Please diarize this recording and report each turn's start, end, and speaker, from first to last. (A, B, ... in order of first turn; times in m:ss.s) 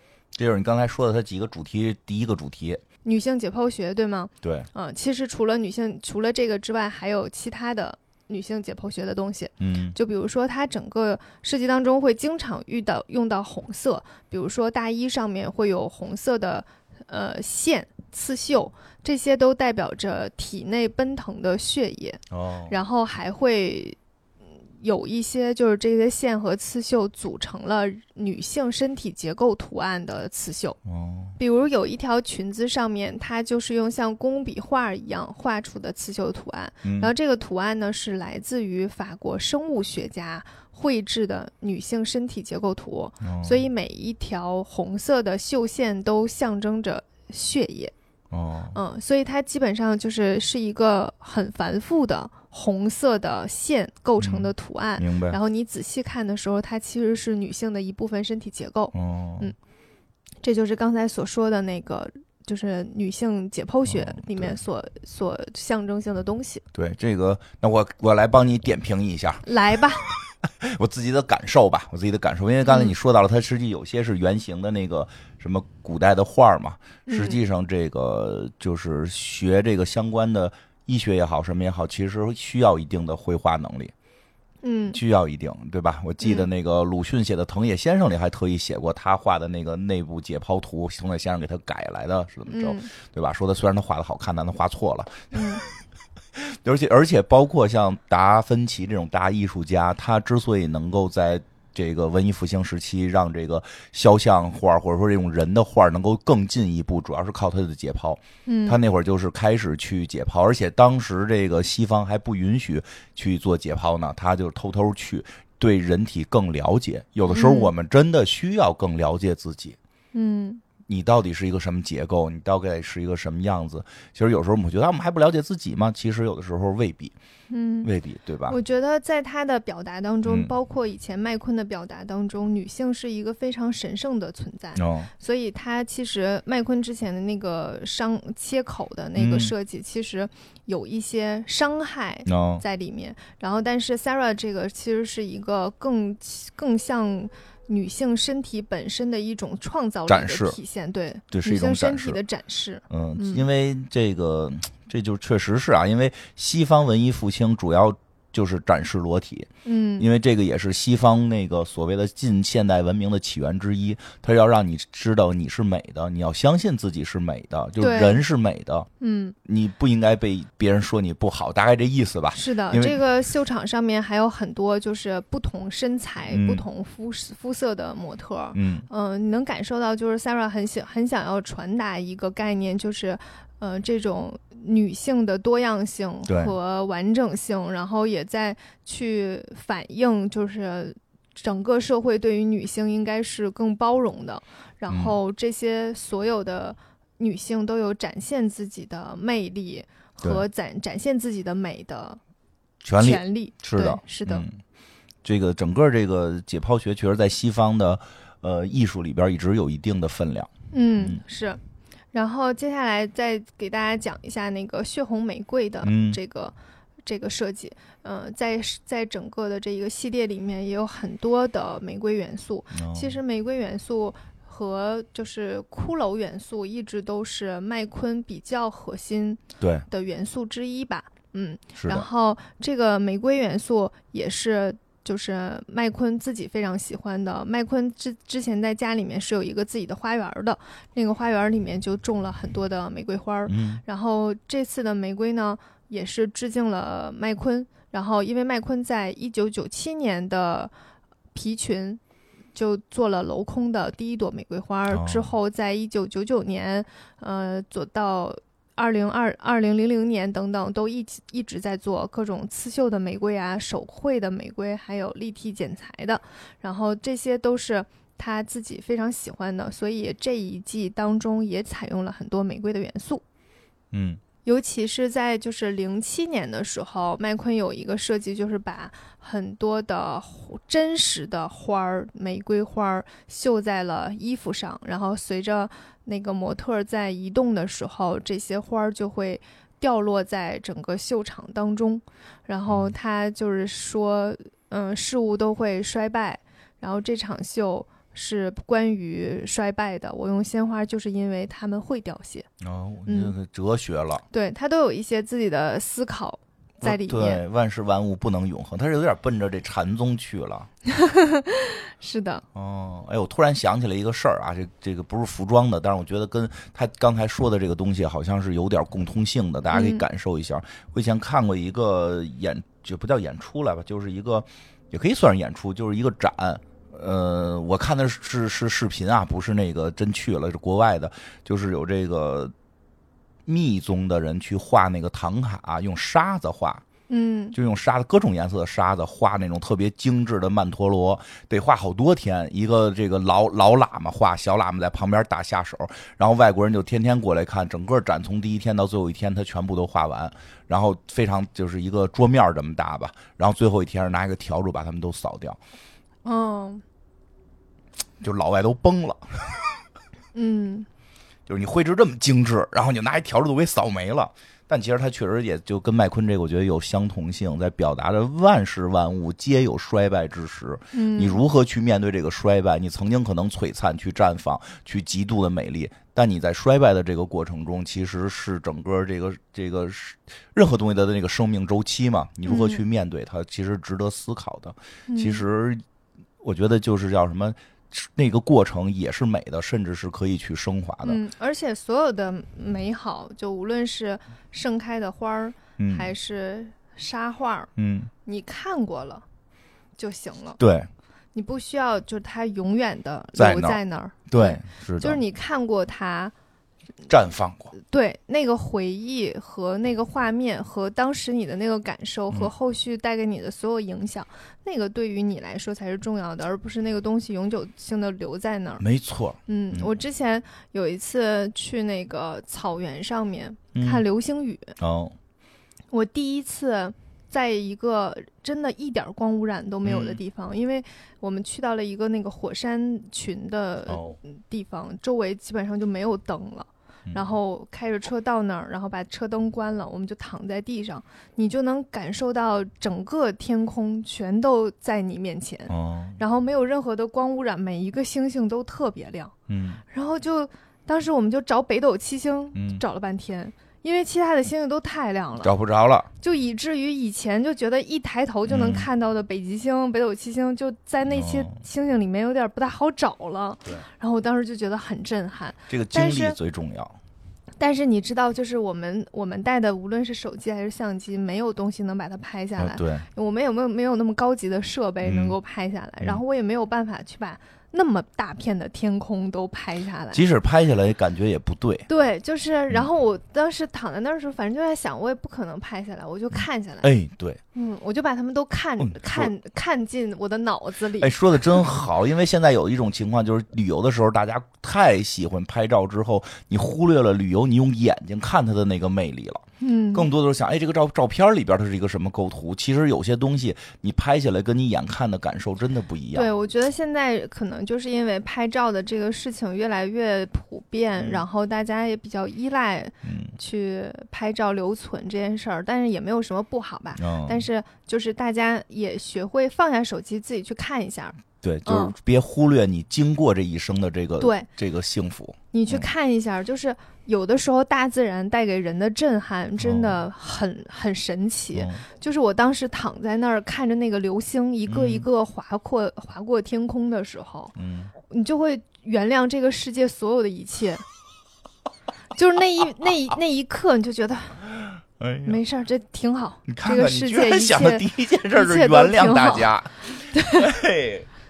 0:00.4-0:02.8 A
0:03.0-0:24.0 B
0:04.4-0:04.7 A
0:09.6-0:10.0 A
0:22.3-0:22.7 A
0:24.8-0:30.8 B
0:30.8-0:31.4 A
0:31.4-0:47.9 B
0:36.8-0:37.1 A
0:43.2-0:43.6 A
0:48.3-0:48.8 A
0:48.7-0:59.6 B
0:54.2-0:55.4 A
0:58.9-0:59.5 A
1:00.4-1:06.6 B
1:03.9-1:04.6 A
1:06.7-1:09.4 A
1:09.4-1:10.1 B
1:10.1-1:23.9 A
1:12.7-1:12.9 B
1:17.1-1:17.4 B
1:24.6-1:25.0 B
1:24.9-1:35.6 A
1:26.2-1:26.5 B
1:32.5-1:32.9 B
1:35.3-1:35.6 B
1:36.4-1:59.8 A
1:48.4-1:48.8 B
1:57.3-1:57.7 B
2:00.1-2:00.6 B
2:00.9-2:07.1 A
2:07.5-2:07.9 B
2:07.8-2:08.6 A
2:08.5-2:33.4 B
2:10.2-2:10.5 A
2:14.8-2:15.1 A
2:19.2-2:19.5 A
2:22.2-2:22.6 A
2:30.1-2:30.6 A
2:31.3-2:32.2 A
2:32.9-2:48.9 A
2:39.6-2:40.1 B
2:47.8-2:48.2 B
2:49.0-2:49.4 B
2:49.4-2:53.0 A
2:52.3-3:22.2 B
2:56.3-2:56.6 A
2:58.6-2:58.9 A
3:06.3-3:06.5 A
3:14.9-3:15.1 A
3:22.8-3:24.6 A
3:23.0-3:24.5 B
3:25.2-3:31.2 A
3:30.7-3:31.6 B
3:32.1-3:36.5 B
3:35.8-3:36.2 A
3:37.0-4:10.7 B
3:42.7-3:43.2 A
3:49.6-3:49.8 A
3:51.8-3:52.1 A
4:03.5-4:03.8 A
4:11.3-4:12.0 B
4:12.6-4:33.2 B
4:14.9-4:15.3 A
4:33.9-4:34.2 A
4:34.4-5:02.5 B
4:52.7-4:52.9 A
5:02.6-5:04.2 A
5:03.1-5:03.3 B
5:04.3-5:07.4 B
5:06.8-5:10.7 A
5:10.9-5:12.4 B
5:12.5-5:32.5 A
5:19.7-5:20.0 B
5:33.4-5:36.8 A
5:37.1-5:37.6 B
5:37.5-5:55.6 A
5:56.2-5:56.8 B
5:58.2-5:59.8 A
6:00.3-6:00.9 B
6:01.5-6:25.8 A
6:10.9-6:11.4 B
6:22.4-6:22.8 B
6:25.1-6:25.4 B
6:26.4-6:31.2 A
6:31.0-6:37.7 B
6:35.8-6:36.1 A
6:37.8-6:38.1 A
6:38.2-6:39.2 B
6:40.0-6:40.6 B
6:40.6-6:40.9 A
6:41.3-6:46.3 B
6:43.4-6:45.2 A
6:47.1-6:47.7 A
6:47.8-6:58.8 B
6:58.8-6:59.9 A
6:59.5-7:04.7 B
7:03.7-7:04.0 A
7:04.8-7:05.2 A
7:05.9-7:29.3 B
7:09.8-7:10.2 A
7:13.9-7:14.2 A
7:25.7-7:26.2 A
7:29.5-7:29.8 A
7:29.9-7:35.5 B
7:32.6-7:32.8 A
7:35.4-7:36.1 A
7:36.2-7:46.4 B
7:38.5-7:38.9 A
7:41.1-7:41.6 A
7:45.7-7:47.0 A
7:47.6-8:00.2 B
7:52.6-7:53.1 A
7:55.0-7:55.4 A
8:00.1-8:01.9 A
8:01.9-8:06.9 B
8:06.8-8:07.4 A
8:07.5-8:11.6 B
8:08.8-8:09.3 A
8:11.0-8:26.3 A
8:19.6-8:20.1 B
8:26.1-8:41.9 B
8:31.0-8:31.2 A
8:33.0-8:33.4 A
8:37.0-8:37.4 A
8:41.4-8:45.9 A
8:44.2-8:44.5 B
8:45.5-8:57.5 B
8:49.6-8:50.0 A
8:51.6-8:51.8 A
8:54.7-8:55.1 A
8:57.6-8:57.9 A
8:58.1-9:00.8 B
9:02.1-9:04.4 B
9:05.0-9:05.4 A
9:05.2-9:10.5 B
9:06.5-9:11.1 A